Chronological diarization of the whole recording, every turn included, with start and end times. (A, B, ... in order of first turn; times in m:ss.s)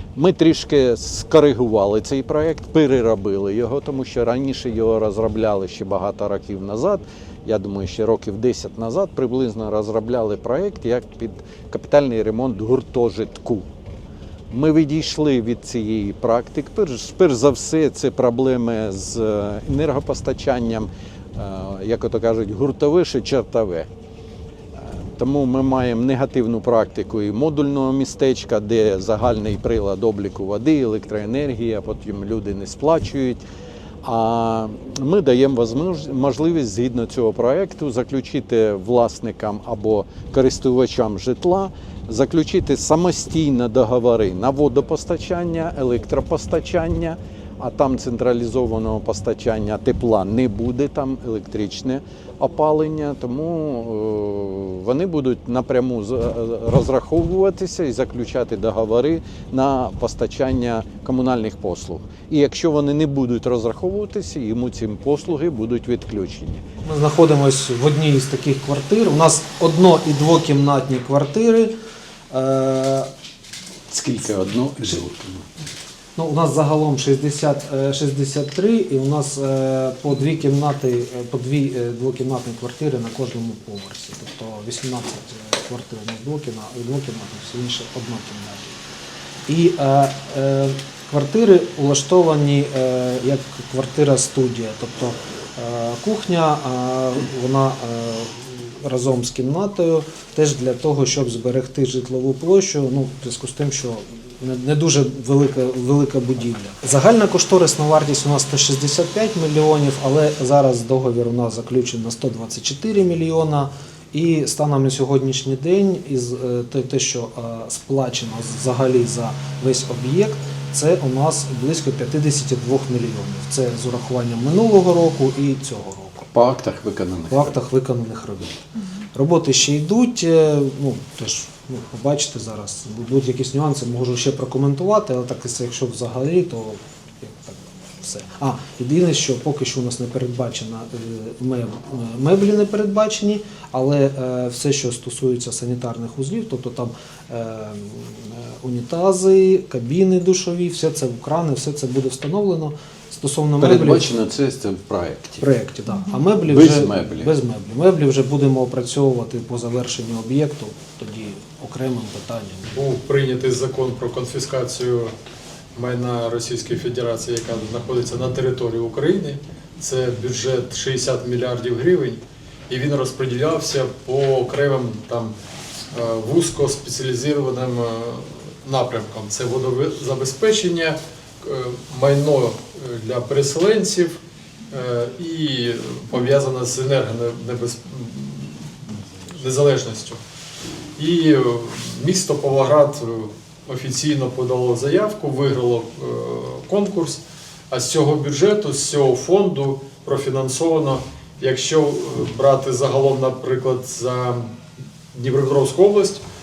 0:00.2-0:13.7 A
0:14.5-0:23.9 A
0:24.8-0:33.4 A
0:34.0-1:06.6 A
1:06.8-1:11.7 B
1:12.3-1:13.1 B
1:13.9-1:15.5 A
1:16.2-1:28.8 B
1:29.5-2:06.3 B
2:06.3-2:07.6 A
2:07.3-2:34.1 B
2:33.6-2:35.4 A
2:35.4-2:42.7 B
2:36.4-2:37.3 A
2:42.7-2:45.1 C
2:45.8-2:55.3 C
2:55.9-3:04.2 C
3:04.7-3:10.2 C
3:11.0-3:24.5 C
3:25.1-3:26.2 C